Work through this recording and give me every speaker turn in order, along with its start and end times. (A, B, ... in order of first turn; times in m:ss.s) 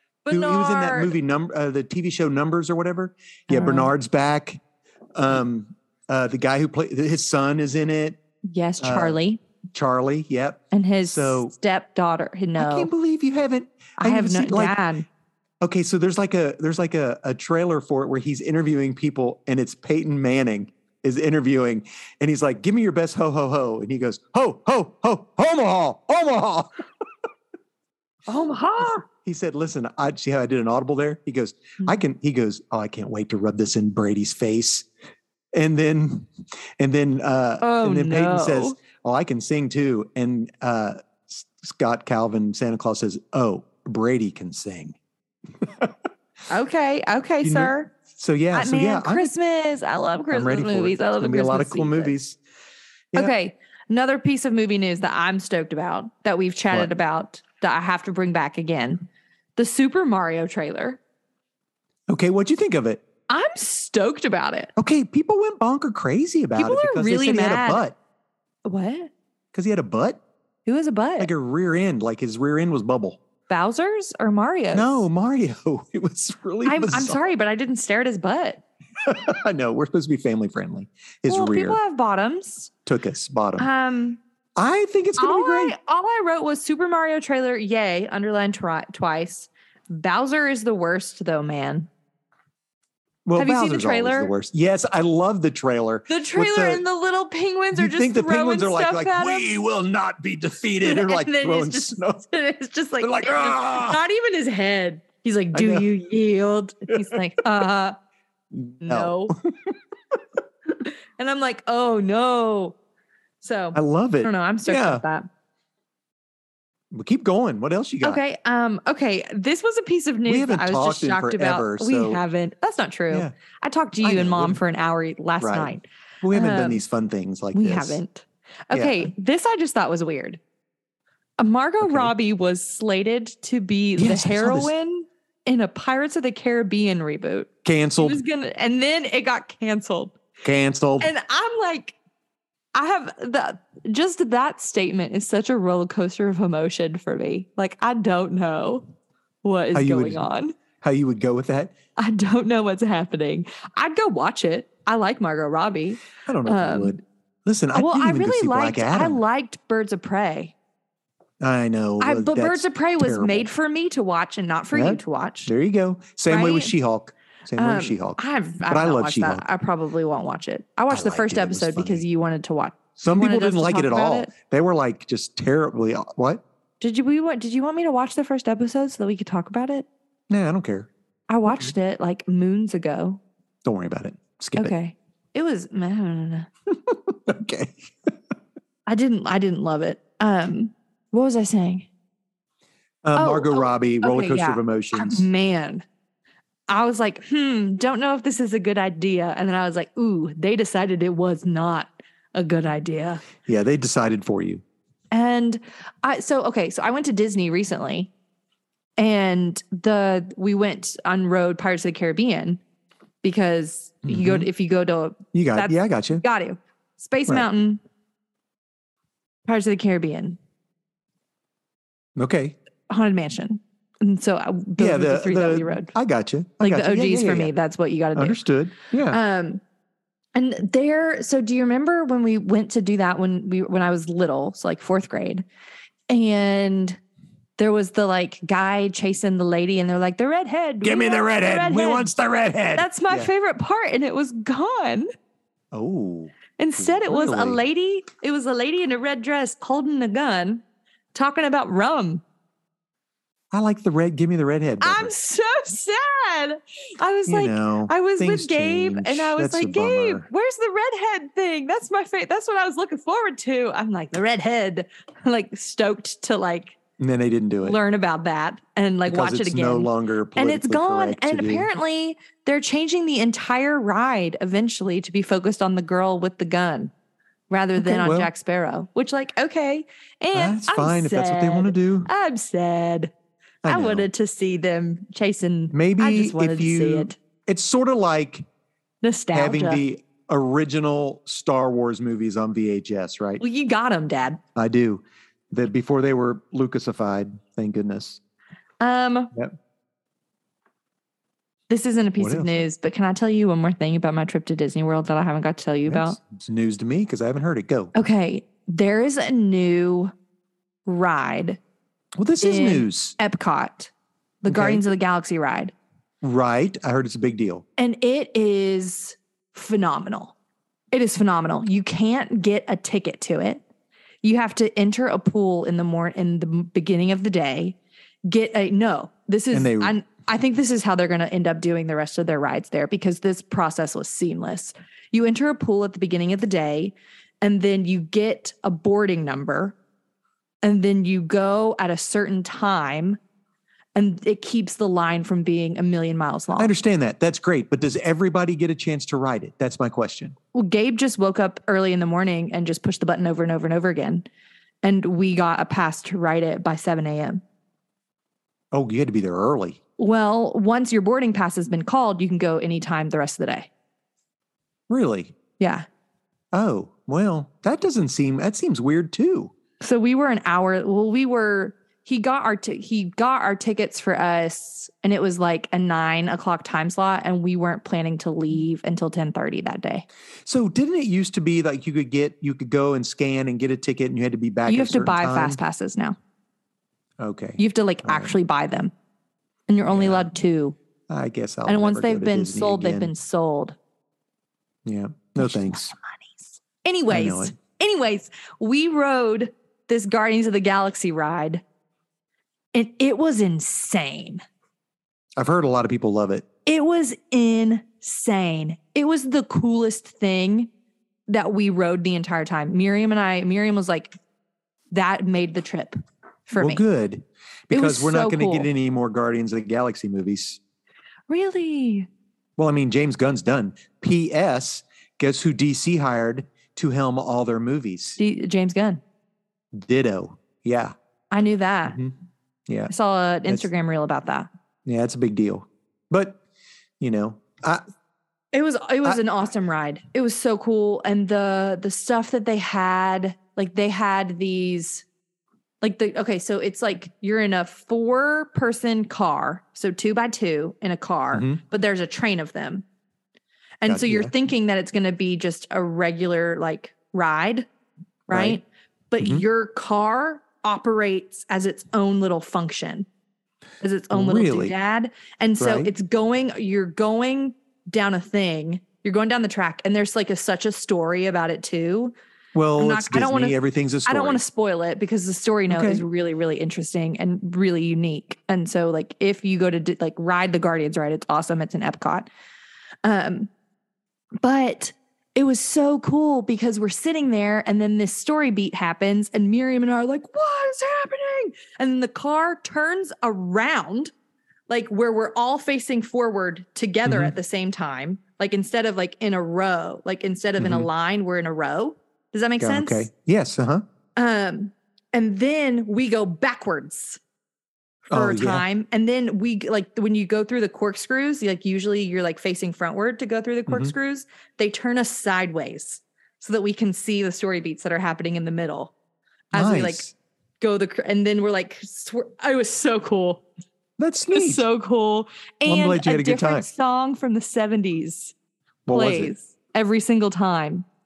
0:00.2-0:01.1 A
0:00.3-0:04.6 B
0:03.5-0:03.9 A
0:05.1-0:08.2 B
0:08.4-0:09.4 A
0:08.8-0:09.2 B
0:09.7-0:11.5 B
0:10.7-0:12.9 A
0:12.6-0:14.8 B
0:14.0-0:15.0 A
0:15.6-0:26.7 B
0:28.3-0:29.0 A
0:29.2-0:34.8 B
0:35.5-0:45.0 B
0:37.6-0:38.8 A
0:45.6-0:45.9 B
0:46.5-0:47.9 A
0:47.4-0:49.3 B
0:48.5-0:52.1 A
0:50.3-0:52.4 B
0:53.1-0:59.0 A
0:59.6-1:01.0 A
1:02.1-1:03.0 B
1:03.3-1:04.7 A
1:04.8-1:08.0 B
1:06.6-1:07.8 A
1:08.6-1:09.1 A
1:09.5-1:10.2 B
1:10.6-1:11.3 A
1:11.2-1:13.2 B
1:13.5-1:14.9 A
1:14.7-1:17.2 B
1:16.6-1:18.6 A
1:19.0-1:21.8 B
1:21.3-1:22.7 A
1:22.8-1:23.7 B
1:23.6-1:24.2 A
1:24.6-1:25.7 B
1:25.2-1:31.9 A
1:33.2-1:36.8 B
1:33.4-1:34.3 A
1:36.1-1:39.5 A
1:37.7-1:42.2 B
1:40.8-1:48.0 A
1:43.0-1:44.0 B
1:45.5-1:45.9 B
1:48.5-1:49.7 B
1:48.8-1:49.3 A
1:50.8-1:52.8 A
1:53.4-1:55.3 A
1:53.7-1:55.0 B
1:56.9-1:58.2 B
1:58.0-2:06.8 A
2:00.3-2:02.2 B
2:04.0-2:04.6 B
2:05.4-2:08.0 B
2:07.5-2:10.4 A
2:08.7-2:09.0 B
2:11.4-2:17.5 A
2:11.8-2:12.1 B
2:14.0-2:14.7 B
2:17.6-2:18.2 B
2:18.0-2:20.2 A
2:20.4-2:21.1 B
2:21.0-2:22.0 A
2:22.7-2:28.8 A
2:29.4-2:30.6 A
2:29.7-2:30.2 B
2:30.8-2:31.7 B
2:32.0-2:37.0 A
2:36.2-2:39.2 B
2:37.7-2:40.5 A
2:41.4-2:43.5 B
2:42.0-2:45.5 A
2:44.7-2:49.4 B
2:46.3-2:46.7 A
2:47.6-2:54.3 A
2:50.9-2:52.0 B
2:53.0-2:56.4 B
2:56.8-2:59.9 A
3:00.3-3:00.9 B
3:01.3-3:03.2 A
3:03.6-3:04.7 B
3:04.6-3:06.5 A
3:06.7-3:07.7 B
3:08.9-3:11.9 A
3:13.0-3:15.3 B
3:13.2-3:15.8 A
3:16.7-3:23.2 A
3:23.4-3:24.6 B
3:25.1-3:28.1 A
3:29.0-3:32.6 A
3:33.2-3:37.8 A
3:34.0-3:34.5 B
3:35.3-3:36.2 B
3:39.4-3:40.4 A
3:42.2-3:42.6 B
3:42.9-3:45.9 A
3:44.8-3:47.5 B
3:46.6-3:48.4 A
3:48.1-3:49.2 B
3:49.1-3:49.6 A
3:50.3-3:55.4 A
3:56.1-3:57.0 A
3:57.6-4:02.1 A
4:00.8-4:03.3 B
4:02.8-4:05.1 A
4:05.7-4:07.6 B
4:06.6-4:10.6 A
4:11.1-4:12.2 A
4:13.5-4:15.1 B
4:14.8-4:26.8 A
4:17.3-4:20.2 B
4:27.0-4:27.8 B
4:27.6-4:36.9 A
4:29.0-4:31.7 B
4:37.5-4:43.1 A
4:37.8-4:38.3 B
4:40.3-4:42.1 B
4:43.6-4:44.1 B
4:43.6-4:47.2 A
4:45.7-4:48.4 B
4:49.0-4:49.8 A
4:49.3-4:53.4 B
4:53.4-4:54.4 A
4:54.6-4:58.2 B
4:58.8-4:59.3 A
5:01.7-5:06.2 A
5:02.2-5:02.5 B
5:05.9-5:07.9 B
5:07.9-5:10.1 A
5:10.8-5:11.6 A
5:12.2-5:13.2 B
5:12.4-5:13.9 A
5:14.4-5:15.7 A
5:14.5-5:14.8 B
5:16.2-5:17.6 B
5:17.8-5:20.3 A
5:20.9-5:23.6 A
5:24.2-5:39.7 A
5:29.5-5:30.0 B
5:40.6-5:43.2 A
5:43.9-5:46.7 A
5:46.6-5:50.4 B
5:50.5-5:54.2 A
5:54.8-5:57.4 A
5:58.7-5:59.8 B
6:00.0-6:03.7 A
6:04.9-6:05.3 B
6:05.6-6:05.8 A
6:06.5-6:09.5 B
6:09.8-6:20.0 A
6:20.4-6:25.6 B
6:24.7-6:26.2 A
6:27.2-6:28.3 B
6:27.6-6:28.9 A
6:29.7-6:30.8 A
6:29.9-6:30.3 B
6:31.1-6:33.1 B
6:31.6-6:33.8 A
6:34.8-6:35.9 B
6:35.4-6:41.6 A
6:37.1-6:37.5 B
6:42.7-6:44.4 A
6:45.4-6:46.4 B
6:46.6-6:50.7 A
6:51.3-6:54.1 A
6:54.9-6:56.8 A
6:56.5-7:00.6 B
6:57.7-6:58.7 A
7:01.3-7:02.1 A
7:02.6-7:08.2 B
7:08.2-7:09.0 A
7:09.7-7:10.9 B
7:11.3-7:12.0 A
7:11.9-7:12.1 B
7:12.7-7:12.9 B
7:12.9-7:14.5 A
7:14.8-7:16.4 B
7:17.0-7:17.8 B
7:18.5-7:25.0 A
7:25.8-7:32.8 A
7:31.3-7:31.6 B
7:33.8-7:37.7 A
7:33.9-7:34.3 B
7:38.3-7:43.1 A
7:38.3-7:38.6 B
7:39.2-7:39.4 B
7:43.8-7:52.1 A
7:44.1-7:44.7 B
7:45.6-7:45.9 B
7:52.5-7:54.4 B
7:52.8-8:02.3 A
7:55.7-7:56.0 B
8:03.0-8:03.5 A
8:04.4-8:14.1 A
8:14.7-8:23.1 A
8:17.0-8:17.3 B
8:20.6-8:20.9 B
8:22.6-8:23.8 B
8:24.2-8:27.2 A
8:28.1-8:28.6 B
8:28.1-8:38.9 A
8:33.7-8:33.9 B
8:39.5-8:40.0 A
8:39.5-8:40.1 B
8:40.6-8:43.4 A
8:44.0-8:44.7 B
8:44.3-8:48.3 A
8:45.6-8:46.7 B
8:48.9-8:49.3 B
8:48.9-8:50.8 A